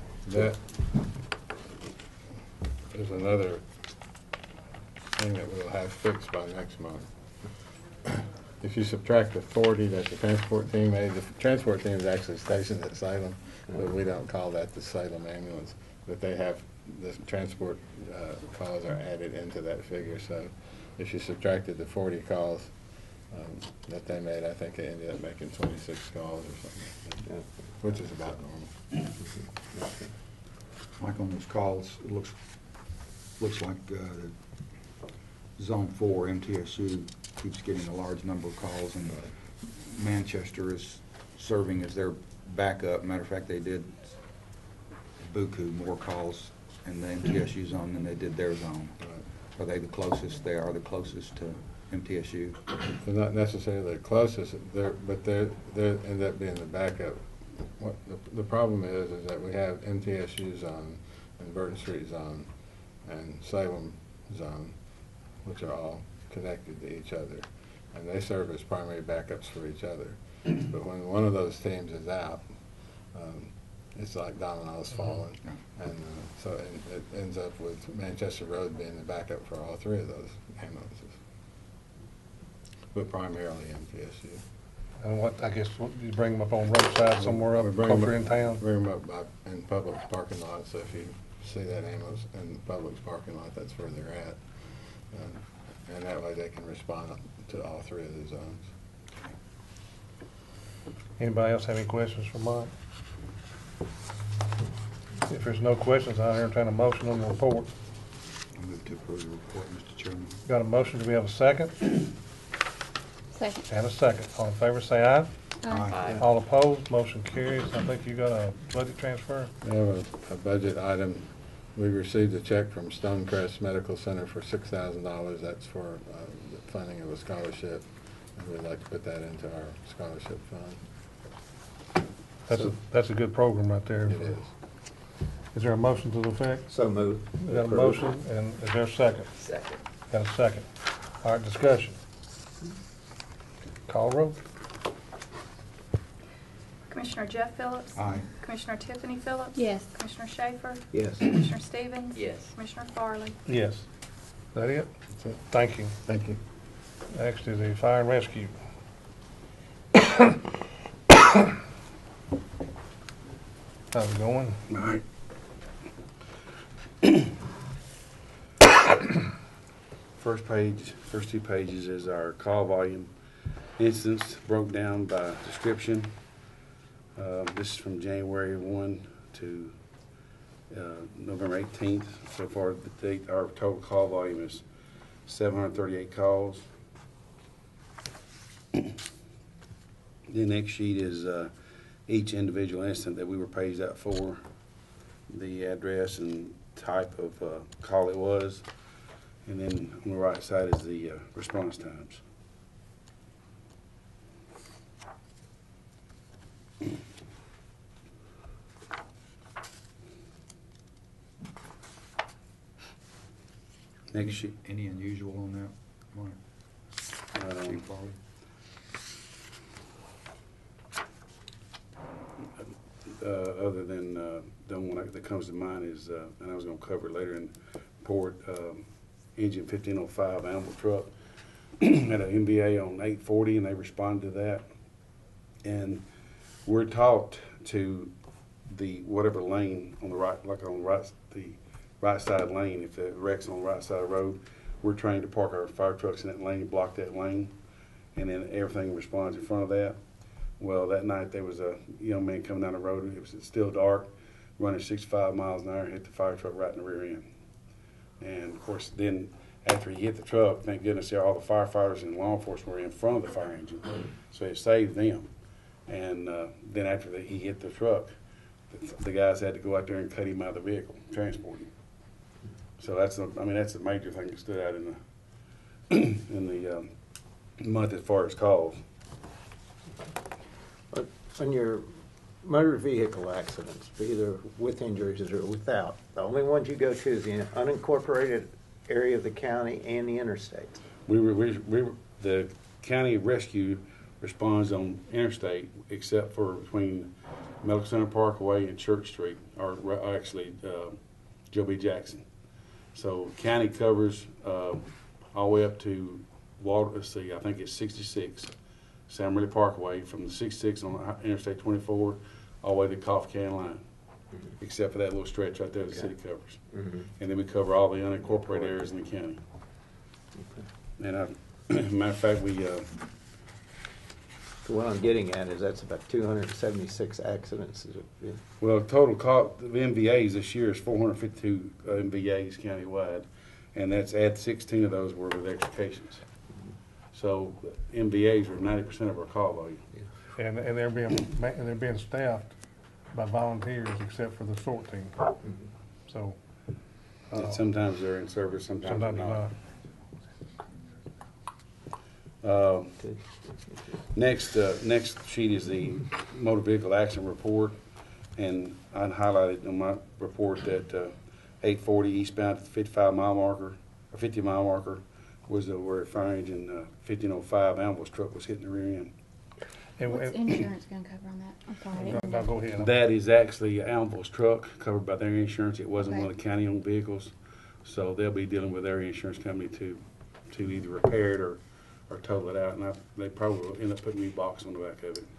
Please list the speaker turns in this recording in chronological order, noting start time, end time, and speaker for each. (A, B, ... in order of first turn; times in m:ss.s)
0:00.2-0:00.6 A
0:02.9-0:03.7 A
0:05.1-0:07.2 A
0:08.1-0:28.8 A
0:27.3-0:27.6 B
0:29.7-0:30.1 B
0:31.0-0:35.0 C
0:35.6-0:44.6 C
0:45.2-0:52.6 C
0:49.0-0:49.3 A
0:53.0-1:21.2 A
1:22.9-1:24.4 A
1:25.0-1:28.6 D
1:27.2-1:38.8 A
1:41.2-1:42.7 D
1:45.3-1:47.7 D
1:48.6-1:50.3 C
1:50.5-1:51.9 D
1:53.3-1:53.7 E
1:53.7-1:55.3 D
1:55.6-1:55.9 E
1:55.7-1:56.2 C
1:56.2-1:59.5 D
1:59.6-2:10.8 A
2:12.5-2:14.4 D
2:14.1-2:14.5 A
2:15.5-2:16.7 D
2:16.7-2:18.0 B
2:17.3-2:19.3 D
2:20.1-2:22.0 D
2:23.9-2:24.4 D
2:26.9-2:33.4 F
2:28.0-2:28.2 C
2:29.6-2:29.9 E
2:30.9-2:31.3 B
2:33.5-2:33.9 D
2:34.5-2:34.9 D
2:35.5-2:36.0 D
2:36.1-2:36.3 A
2:37.1-2:38.6 D
2:43.9-2:44.6 D
2:44.7-2:45.0 G
2:50.2-2:53.1 G
2:53.8-2:56.1 G
2:57.2-2:59.8 G
3:00.7-3:04.6 G
3:05.3-3:06.7 G
3:10.3-3:11.5 G
3:12.1-3:14.4 G
3:15.3-3:18.6 G
3:19.4-3:22.2 G
3:34.1-3:34.6 G
3:34.2-3:36.4 C
3:37.4-3:37.8 G
3:37.5-3:38.2 C
3:42.6-3:51.1 G
3:51.8-3:54.6 G
3:55.6-3:56.0 G
3:56.6-3:58.1 G
3:58.7-4:07.5 G
4:08.2-4:10.0 G
4:10.6-4:17.3 G
4:18.2-4:25.3 G
4:25.9-4:28.1 G
4:28.7-4:31.7 G
4:32.8-4:35.0 G
4:35.9-4:36.9 G
4:37.6-4:38.8 G
4:40.9-4:50.8 B
4:51.1-5:01.0 G
5:01.5-5:02.2 G
5:02.9-5:08.5 G
5:09.1-5:13.8 G
5:14.6-5:19.4 G
5:16.7-5:17.0 B
5:21.0-5:22.9 G
5:24.6-5:28.4 B
5:28.6-5:36.2 G
5:37.1-5:39.8 G
5:40.4-5:42.6 D
5:43.1-5:45.2 D
5:46.1-5:46.4 D
5:47.3-5:47.6 D
5:47.3-5:49.4 G
5:48.8-5:49.5 D
5:52.4-5:53.0 G
5:54.1-5:57.8 G
5:58.4-6:09.1 G
6:10.0-6:10.4 D
6:10.1-6:12.5 E
6:12.0-6:12.9 D
6:12.7-6:17.3 G
6:16.0-6:16.3 E
6:17.8-6:25.3 G